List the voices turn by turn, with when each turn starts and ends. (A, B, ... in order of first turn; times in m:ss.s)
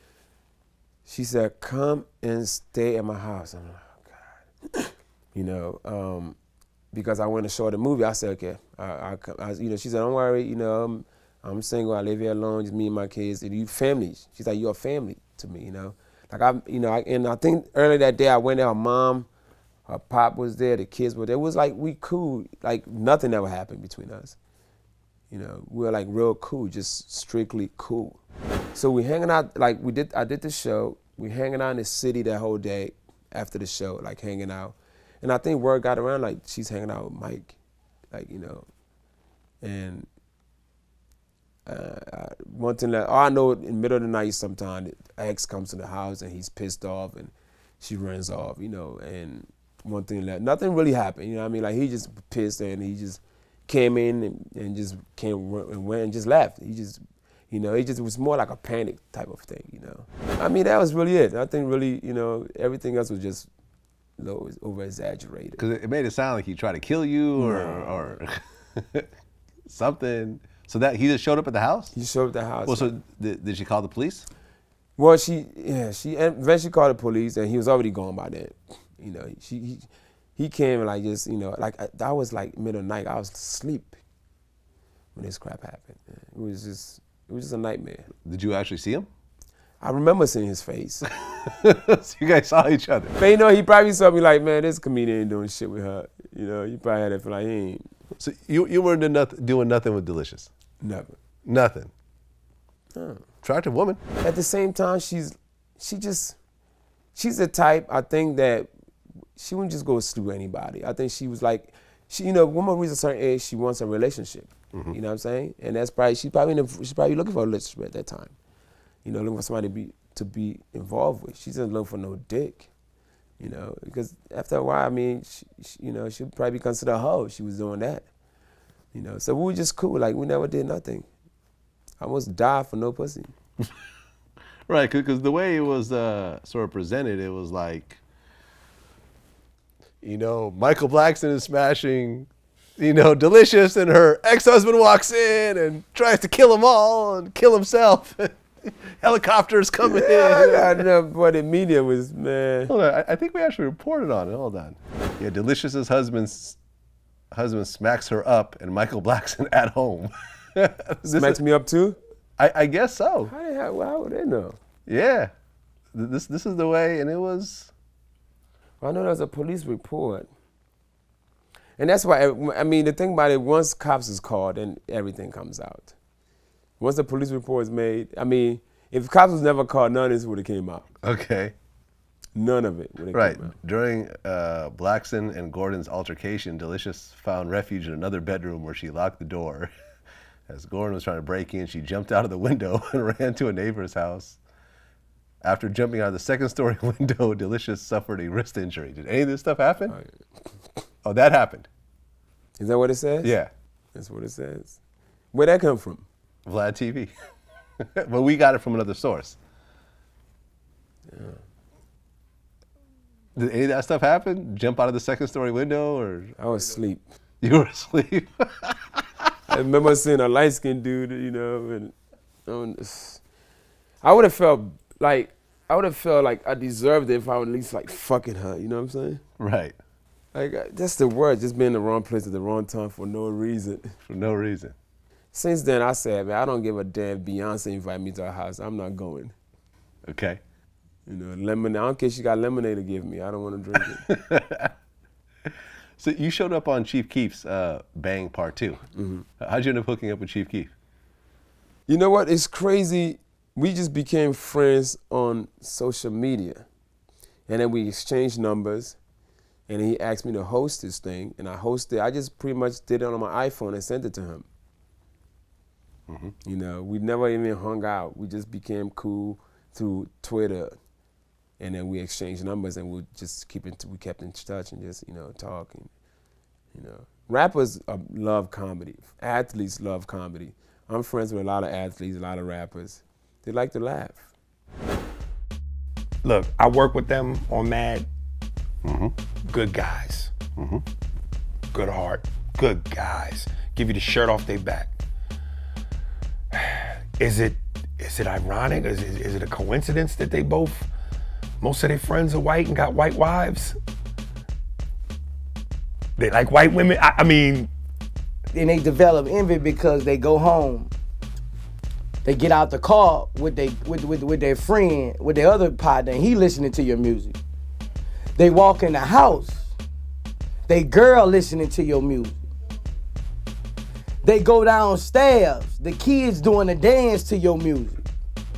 0:01.1-0:06.4 A
0:06.9-0:19.3 A
0:19.9-0:24.4 A
0:25.3-0:28.2 A
0:28.7-0:37.6 A
0:38.1-0:38.7 A
0:39.6-0:40.1 A
0:41.7-1:03.5 A
1:04.2-1:05.6 A
1:05.6-1:09.1 B
1:07.4-1:08.2 A
1:09.7-1:11.9 B
1:11.9-1:12.9 A
1:12.7-1:14.3 B
1:15.0-1:24.0 A
1:25.2-1:28.1 A
1:28.2-1:29.1 B
1:29.8-1:31.1 A
1:31.3-1:33.2 B
1:33.2-1:37.9 A
1:38.2-1:40.5 B
1:40.8-1:41.2 A
1:41.5-1:41.9 B
1:43.0-1:43.2 A
1:43.4-1:44.0 B
1:44.2-1:46.4 A
1:47.2-1:48.7 A
1:49.4-1:58.4 A
1:59.0-2:02.7 A
2:03.4-2:08.1 A
2:08.9-2:11.1 A
2:12.0-2:13.3 A
2:14.7-2:18.0 B
2:20.0-2:30.9 B
2:29.8-2:32.7 A
2:32.7-2:36.6 B
2:37.3-2:41.4 B
2:41.1-2:42.0 A
2:42.4-2:43.3 B
2:43.3-2:44.6 A
2:44.9-2:45.3 B
2:45.9-2:47.7 B
2:48.8-2:50.3 A
2:51.8-2:55.9 A
2:56.8-3:00.9 A
3:01.0-3:01.6 B
3:02.4-3:03.6 A
3:03.1-3:09.7 B
3:10.5-3:14.4 B
3:15.4-3:20.0 B
3:21.0-3:21.7 B
3:22.6-3:23.3 A
3:23.2-3:23.5 B
3:23.9-3:24.8 A
3:25.3-3:26.1 A
3:26.5-3:27.1 B
3:27.8-3:29.4 B
3:31.1-3:31.4 A
3:33.4-3:36.3 B
3:36.4-3:37.0 A
3:37.4-3:39.0 B
3:39.5-3:42.0 A
3:42.5-3:43.2 A
3:44.0-3:49.2 A
3:49.4-3:49.8 B
3:50.3-3:54.0 A
3:54.1-3:54.8 B
3:55.3-3:59.3 A
4:00.1-4:00.4 B
4:01.1-4:04.0 A
4:04.1-4:04.7 B
4:06.0-4:08.8 B
4:09.0-4:09.3 A
4:09.4-4:10.7 B
4:11.9-4:16.7 A
4:17.5-4:19.0 A
4:19.7-4:24.5 A
4:26.1-4:26.3 B
4:26.4-4:30.7 A
4:31.6-4:35.9 A
4:36.7-4:44.3 A
4:46.2-4:48.1 C
4:48.8-4:49.1 B
4:49.5-4:50.3 C
4:50.6-4:50.8 B
4:51.7-4:54.9 C
4:56.5-5:00.9 C
5:01.6-5:03.8 C
5:06.2-5:07.7 C
5:08.5-5:10.9 D
5:12.2-5:17.4 D
5:18.4-5:19.7 D
5:20.7-5:22.4 D
5:24.2-5:28.0 D